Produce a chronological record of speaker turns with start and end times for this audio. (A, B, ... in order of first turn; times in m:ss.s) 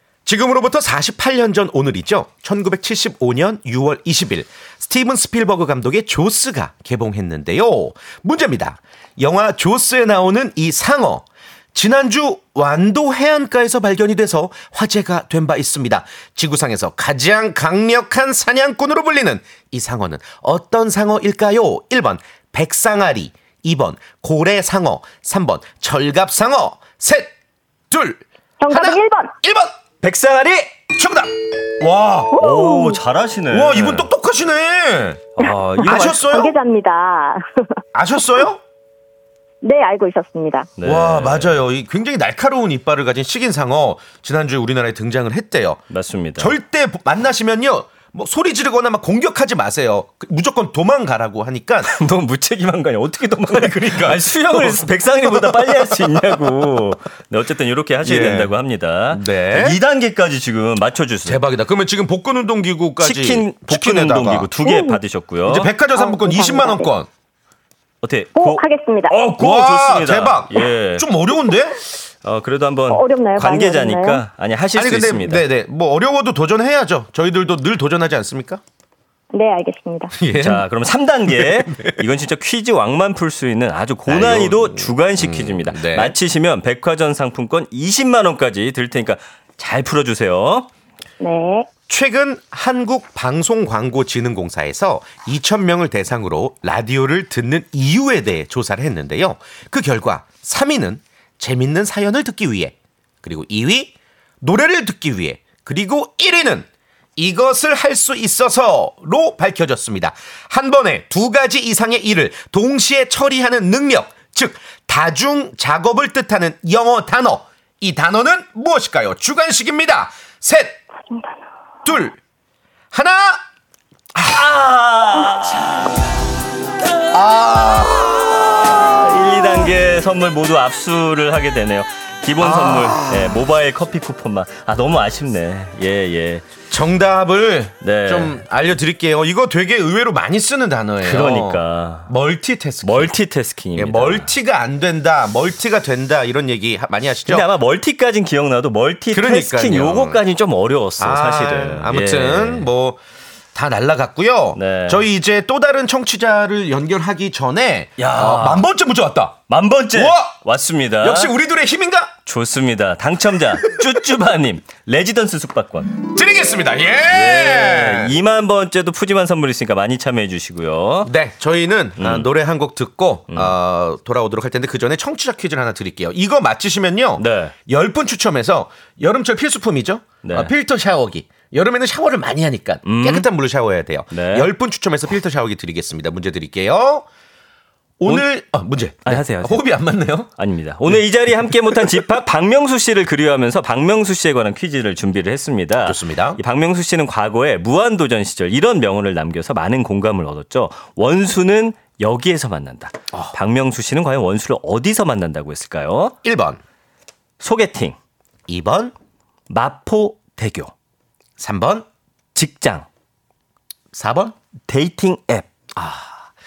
0:00.2-0:27.3 A
0:27.9-0:29.8 A
0:28.6-0:29.3 B
0:30.0-0:30.7 C
0:30.9-0:32.4 A
0:32.3-0:33.0 B
0:32.3-0:34.1 C
0:33.5-0:36.5 A
0:35.4-0:36.2 C
0:35.4-0:37.7 B
0:37.9-0:38.6 A
0:39.6-0:40.7 B
0:40.8-0:41.6 C
0:40.8-0:45.8 A
0:45.9-0:46.5 C
0:46.4-0:51.9 A
0:51.9-1:01.4 C
0:53.5-0:56.4 A
0:58.0-0:58.5 A
0:59.1-0:59.8 A
1:01.2-1:04.5 A
1:03.0-1:05.7 C
1:04.6-1:05.0 B
1:05.4-1:07.1 A
1:05.9-1:06.9 B
1:08.0-1:11.1 C
1:08.4-1:09.2 B
1:09.4-1:11.8 A
1:12.2-1:15.4 C
1:12.9-1:14.2 B
1:14.7-1:18.6 A
1:19.3-1:20.1 B
1:20.1-1:20.6 A
1:20.4-1:30.7 C
1:21.3-1:22.0 A
1:24.1-1:26.1 A
1:31.2-1:31.7 B
1:31.9-2:00.8 A
2:01.8-2:02.2 A
2:02.9-2:03.4 A
2:04.2-2:06.0 C
2:07.1-2:08.4 A
2:08.6-2:16.4 C
2:12.4-2:13.4 A
2:16.7-2:23.1 A
2:17.8-2:18.4 C
2:21.0-2:22.1 C
2:22.8-2:24.3 C
2:23.8-2:27.5 A
2:27.3-2:32.7 C
2:29.1-2:30.2 A
2:31.0-2:33.0 A
2:33.5-2:40.4 A
2:34.5-2:35.0 C
2:38.0-2:38.6 C
2:39.5-2:41.3 C
2:41.0-2:42.1 A
2:42.2-2:46.0 C
2:46.1-2:48.1 A
2:47.1-2:51.1 C
2:51.0-3:07.0 A
2:52.0-2:52.3 C
2:57.2-2:57.5 C
3:00.2-3:00.5 C
3:02.8-3:03.3 C
3:04.1-3:04.5 C
3:08.0-3:10.3 A
3:09.0-3:09.6 C
3:10.4-3:26.2 C
3:11.7-3:12.0 A
3:15.8-3:16.4 A
3:26.2-3:26.6 A
3:27.4-3:28.0 C
3:28.5-3:28.9 A
3:29.5-3:30.7 C
3:31.4-3:31.8 A
3:32.3-3:32.8 C
3:33.9-3:34.4 A
3:34.7-3:35.5 C
3:35.7-3:36.3 A